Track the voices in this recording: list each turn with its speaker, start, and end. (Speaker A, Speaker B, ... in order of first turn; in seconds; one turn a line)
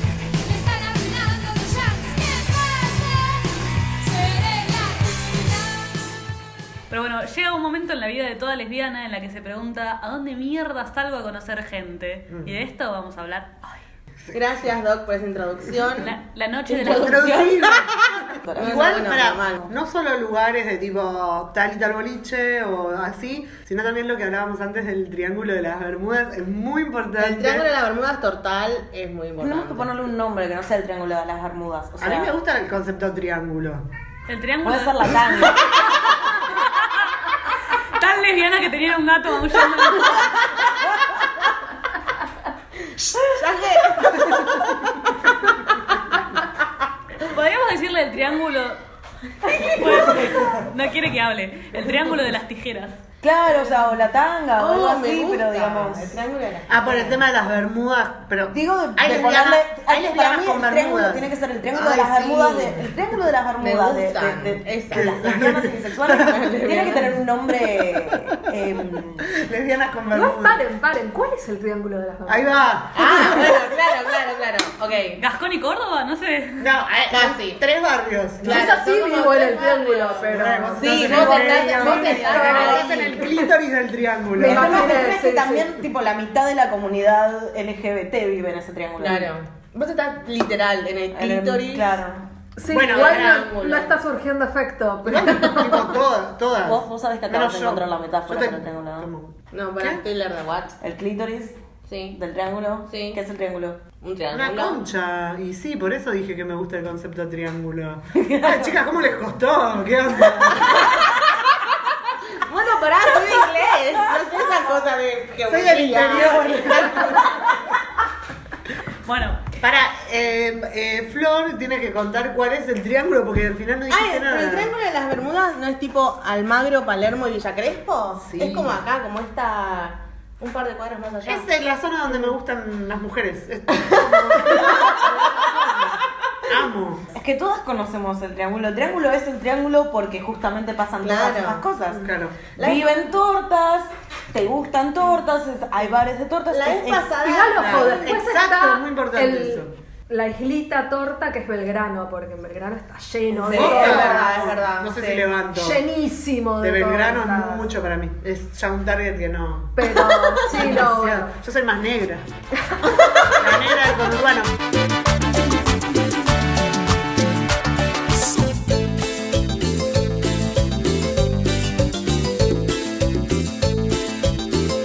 Speaker A: 0.3-6.1
Speaker B: 6.9-13.8
Speaker C: 14.2-14.7
Speaker D: 14.3-16.1
Speaker B: 16.0-17.5
Speaker D: 16.7-19.7
Speaker C: 16.9-27.7
Speaker E: 18.4-19.0
Speaker D: 27.2-29.9
Speaker E: 29.4-32.3
Speaker C: 32.0-33.9
Speaker B: 34.3-36.9
Speaker E: 34.6-35.6
Speaker B: 38.0-40.4
Speaker D: 43.4-44.6
Speaker B: 47.2-48.8
Speaker D: 49.5-50.5
Speaker E: 49.7-50.5
Speaker B: 49.8-53.0
Speaker E: 53.2-56.2
Speaker D: 53.5-53.9
Speaker D: 54.5-57.2
Speaker C: 56.7-61.3
Speaker E: 58.5-69.3
Speaker D: 61.8-62.3
Speaker C: 61.8-62.9
Speaker D: 63.6-65.6
Speaker C: 64.9-66.8
Speaker D: 66.2-67.2
Speaker C: 69.3-70.6
Speaker F: 70.1-72.7
Speaker C: 72.3-73.7
Speaker D: 72.9-75.2
Speaker B: 75.2-76.7
Speaker C: 76.6-78.7
Speaker D: 77.1-77.6
Speaker D: 78.4-83.3
Speaker F: 78.4-81.2
Speaker C: 80.3-85.1
Speaker E: 80.8-82.9
Speaker F: 81.8-83.5
Speaker F: 84.3-85.7
Speaker E: 84.4-89.3
Speaker D: 89.0-92.0
Speaker E: 91.1-92.2
Speaker F: 92.6-95.9
Speaker C: 92.7-93.5
Speaker D: 92.8-94.0
Speaker C: 95.0-100.0
Speaker E: 96.6-99.1
Speaker D: 99.5-100.8
Speaker E: 100.8-101.6
Speaker D: 101.8-102.2
Speaker E: 102.1-103.8
Speaker D: 102.8-103.2
Speaker D: 104.0-104.8
Speaker C: 104.3-110.8
Speaker E: 108.1-108.7
Speaker D: 112.3-117.5
Speaker C: 115.5-117.3
Speaker B: 119.0-119.5
Speaker C: 119.6-124.7
Speaker D: 123.9-131.4
Speaker C: 128.2-128.8
Speaker C: 131.2-135.6
Speaker D: 134.3-135.9
Speaker C: 136.4-137.1
Speaker E: 137.1-147.1
Speaker D: 141.0-141.6
Speaker C: 141.9-142.6
Speaker D: 142.6-143.0
Speaker D: 146.5-148.0
Speaker F: 147.2-154.3
Speaker C: 147.3-149.7
Speaker D: 153.3-155.3
Speaker C: 153.5-155.8
Speaker F: 155.5-157.7
Speaker C: 156.6-162.3
Speaker F: 159.8-161.3
Speaker C: 163.3-164.5